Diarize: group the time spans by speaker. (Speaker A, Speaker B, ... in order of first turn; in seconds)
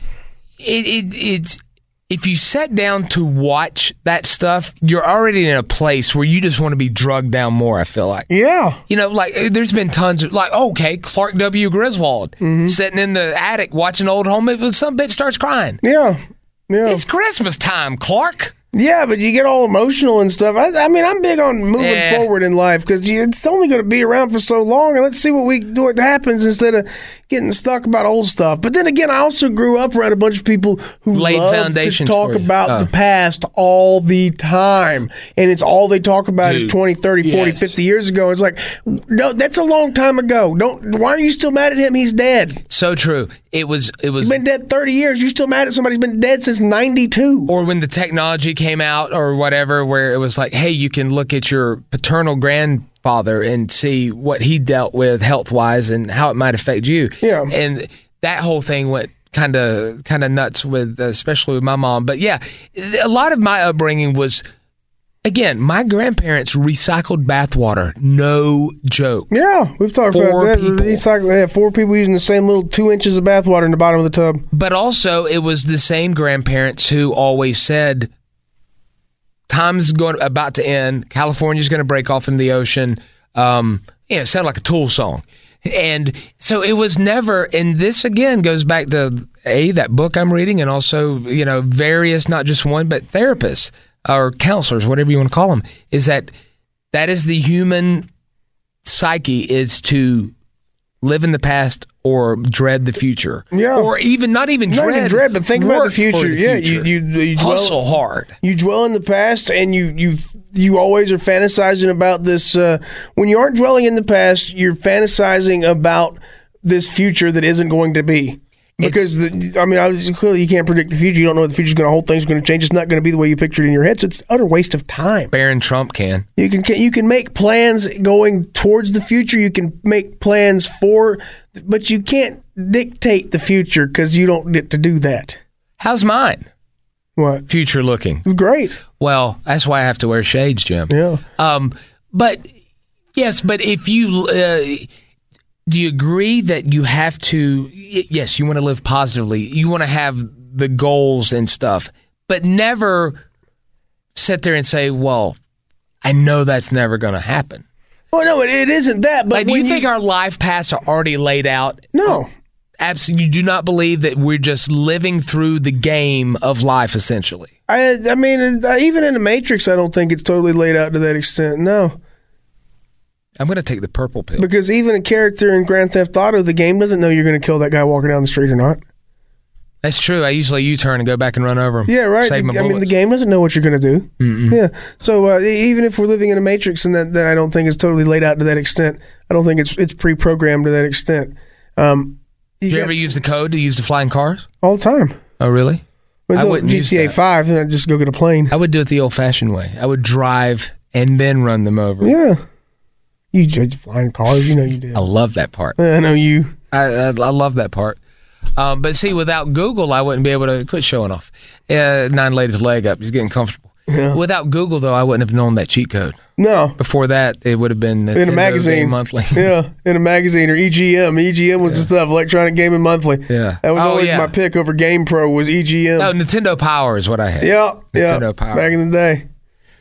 Speaker A: 0.6-8.3, 8.9-15.8, 16.9-18.5, 21.8-22.3, 31.1-32.9, 36.4-37.7, 42.7-44.4, 47.5-64.4, 65.2-69.3, 70.1-71.0, 74.5-78.1, 79.5-96.3, 96.9-98.1, 98.8-100.3, 101.0-108.3, 118.8-119.1, 125.3-126.3, 135.8-136.5, 137.5-138.2, 138.9-142.5, 143.1-144.9, 145.7-153.2, 154.2-155.4, 156.0-157.6, 159.3-162.2, 162.8-167.5, 173.4-174.5, 179.8-182.9, 184.2-184.6, 192.7-194.5, 195.4-195.8, 196.3-197.2, 198.5-202.2, 204.9-205.8, 206.7-208.0, 208.6-216.2, 216.8-219.5, 223.3-224.3, 226.0-228.7
Speaker B: 8.3-8.8, 12.4-12.8, 15.8-17.1, 18.7-42.6, 44.2-47.5, 57.2-57.5, 69.3-74.5, 103.5-103.9, 104.7-107.8, 108.4-125.3, 126.4-135.4, 137.2-137.5, 138.2-138.8, 140.9-141.2, 158.1-159.9, 161.9-162.3, 167.7-172.0, 174.4-178.8, 181.9-193.2, 194.6-195.2, 196.3-198.5, 202.0-202.4, 203.3-205.1, 205.8-206.5, 213.9-214.2, 216.4-216.8, 218.1-226.1, 227.4-229.3